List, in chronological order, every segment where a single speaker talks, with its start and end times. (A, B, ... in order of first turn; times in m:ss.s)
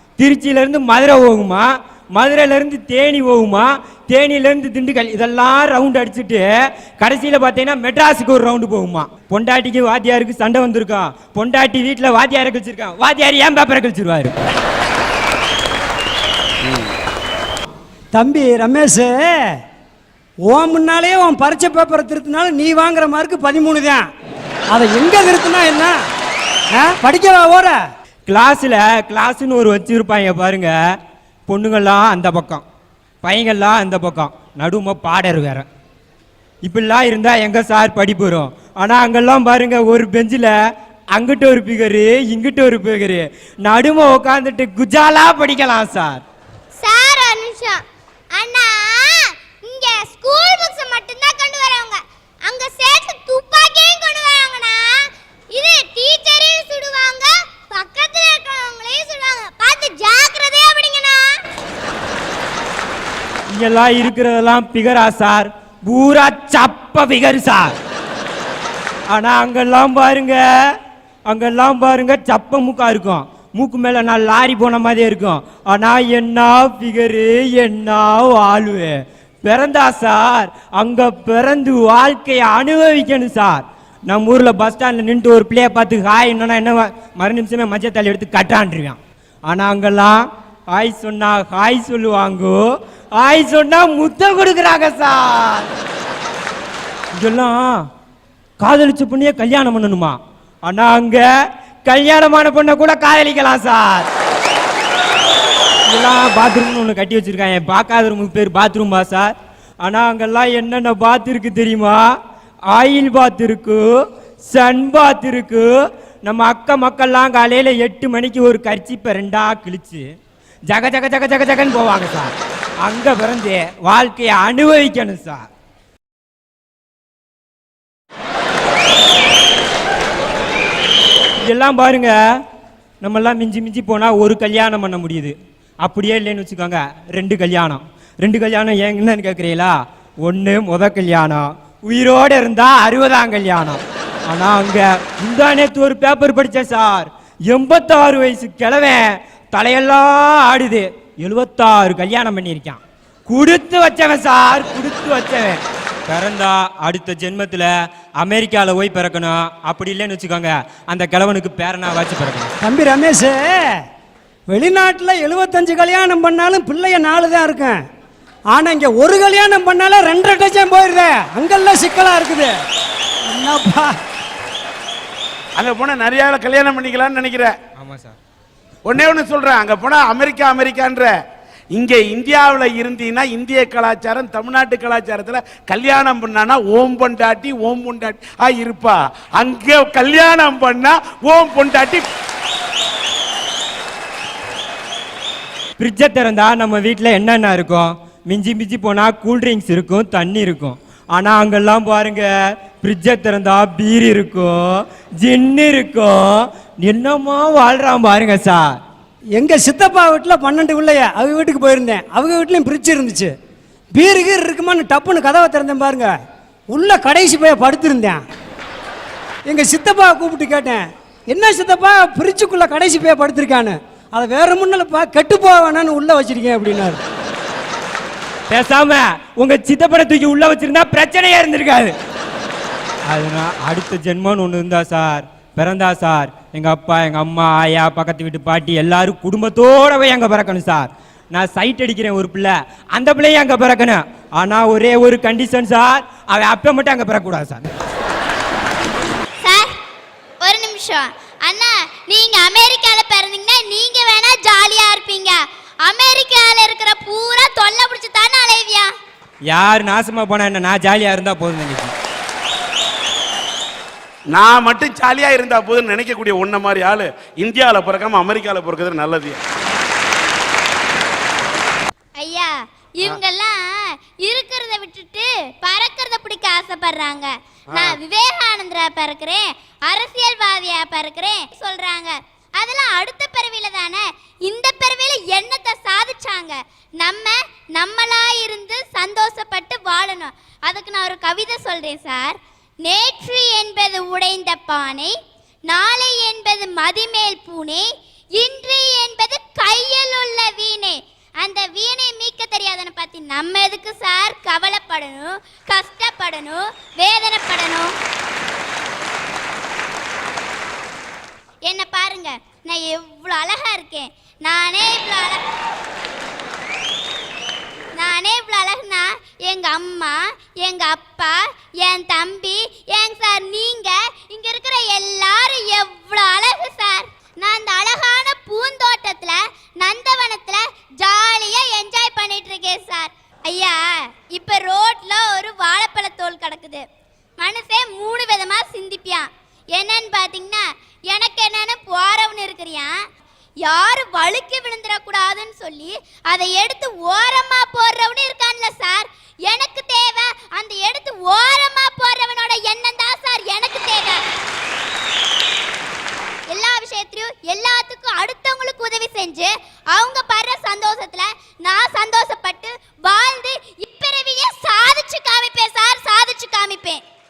0:00.2-0:06.4 A
0:07.0-0:14.3 A
0:16.6-0:16.9 B
0:18.1-0:19.6 C
0:20.4-0:24.1 C
0:24.7-0:26.0 C
0:26.7-0:27.8 C
0:28.3-0:30.7 A
0:31.5-0:32.6 A
0:33.2-0:35.6 A
0:36.6-0:40.5 A
0:41.1-0:46.2 A
0:46.8-1:01.4 D
1:03.5-1:07.7 A
1:09.1-1:32.6 A
1:33.2-1:35.7 A
1:37.2-1:37.8 A
1:38.6-1:41.2 A
1:41.8-1:44.1 A
1:45.9-1:52.1 A
1:52.7-1:53.8 A
1:54.4-1:55.7 A
1:56.2-2:00.1 A
2:00.7-2:05.5 A
2:11.4-2:12.2 A
2:13.0-2:42.5 A
2:42.6-2:43.8 C
2:44.5-2:47.8 C
2:48.5-2:52.5 C
2:53.3-2:54.0 C
2:55.6-2:57.5 B
2:57.8-2:58.2 A
2:58.9-3:01.1 B
3:01.7-3:12.0 B
3:15.8-3:28.8 A
3:29.4-3:33.3 C
3:33.9-3:36.1 C
3:36.7-3:38.2 C
3:39.5-3:47.0 C
3:48.5-3:52.0 A
3:53.1-4:07.6 A
4:09.4-4:09.7 E
4:10.4-4:18.9 E
4:19.5-4:21.9 A
4:24.3-4:29.4 B
4:32.2-4:55.1 E
4:37.7-4:38.0 B
4:55.7-5:07.9 E
5:11.6-5:15.4 E
5:18.0-5:36.8 E
5:37.4-5:43.0 E
5:43.6-5:54.3 E
5:56.5-6:07.0 E